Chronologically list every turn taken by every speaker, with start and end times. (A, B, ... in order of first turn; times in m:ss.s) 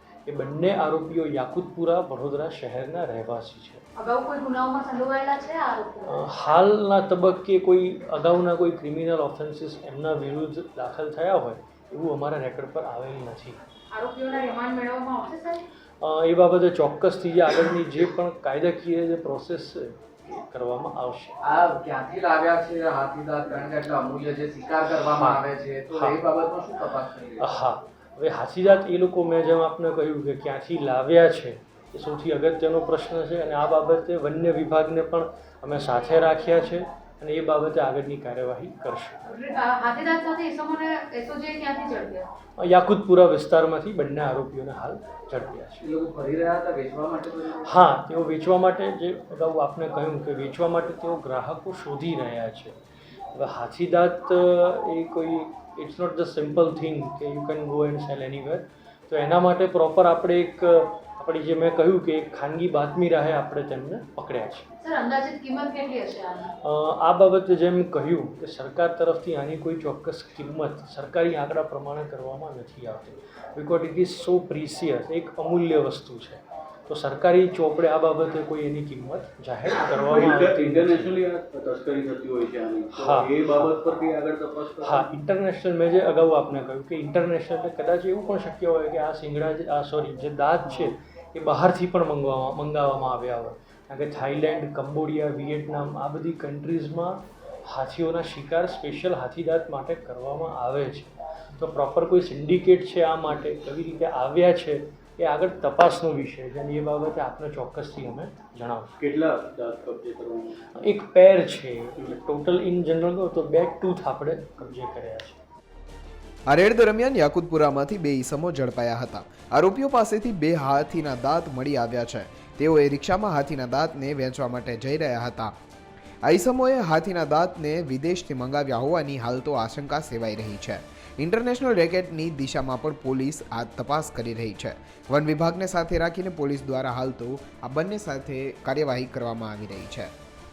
0:00.2-0:03.8 A
0:04.0-0:06.2 B
0:06.0-0:13.6 A
0:13.9-0:15.6 B
0:16.0-0:21.4 A
0:21.4-0:27.5 C
0:25.2-0:26.2 A
0:27.4-0:39.2 A
0:39.2-0:42.3 B
0:42.6-0:45.8 A
0:45.8-0:47.7 C
0:47.6-0:52.8 A
0:53.3-1:04.7 A
1:04.8-1:06.5 B
1:06.6-1:21.2 A
1:19.9-1:25.1 D
1:22.9-1:23.7 A
1:24.8-1:48.9 A
1:49.0-1:50.6 D
1:50.7-1:55.4 A
1:56.5-2:05.5 E
2:06.2-2:20.1 E